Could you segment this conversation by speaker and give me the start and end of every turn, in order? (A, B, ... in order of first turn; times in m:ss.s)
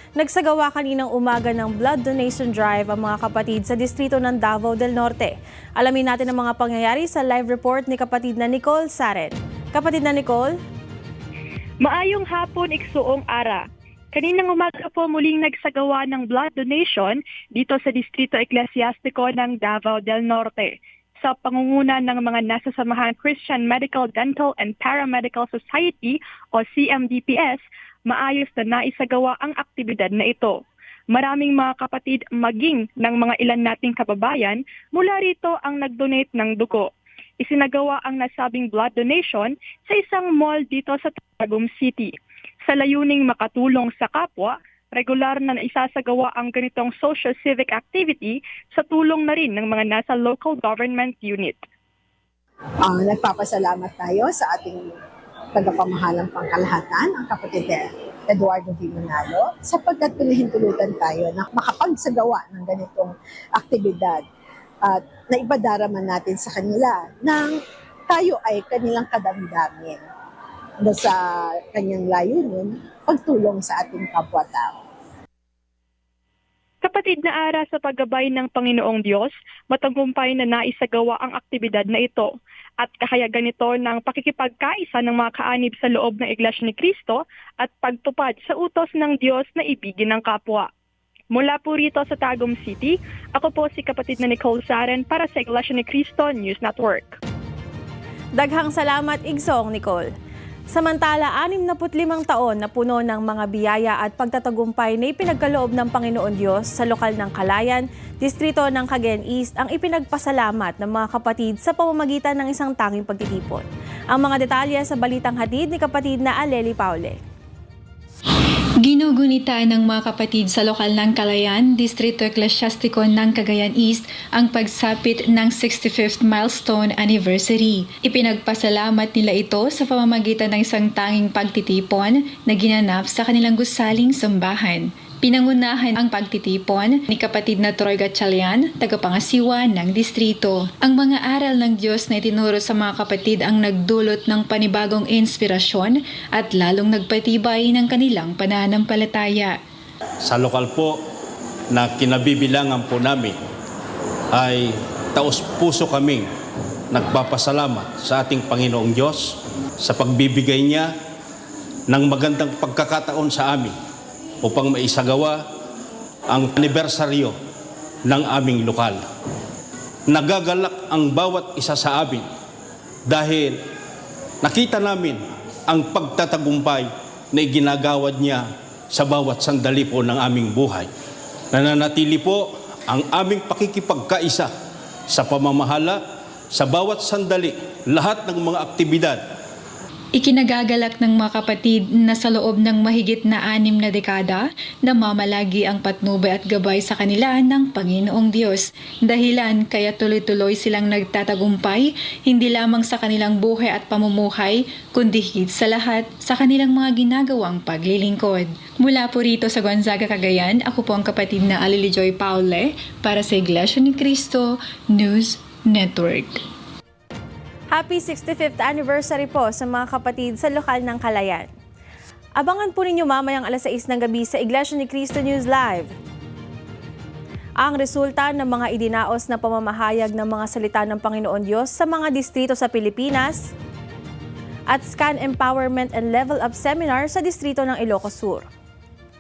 0:00.2-0:10.6 A
0:11.8-0:13.6 B
0:14.1-0:30.6 B
0:31.1-0:36.9 B
0:37.4-0:42.1 B
0:42.7-0:51.6 B
0:52.8-0:54.9 C
0:55.5-1:04.2 C
1:04.8-1:07.6 C
1:08.1-1:10.0 C
1:10.8-1:14.8 C
1:16.8-1:30.7 B
1:31.3-1:37.2 B
1:38.4-1:40.1 A
1:40.7-1:57.2 A
1:58.8-2:29.6 D
2:30.2-2:31.0 E
2:31.7-2:33.4 E
2:34.3-2:36.3 E
2:36.9-2:40.9 E
2:41.9-2:43.7 E
2:44.4-2:45.4 E
2:46.3-2:47.3 E
2:48.1-2:49.0 E
2:50.1-2:52.2 E
2:53.1-2:53.6 E
2:54.4-3:00.9 E
3:01.5-3:04.5 E
3:05.1-3:09.2 E
3:10.2-3:36.4 D
3:37.7-3:41.5 A
3:42.4-3:45.9 A
3:47.6-3:53.5 A
3:54.7-3:58.5 A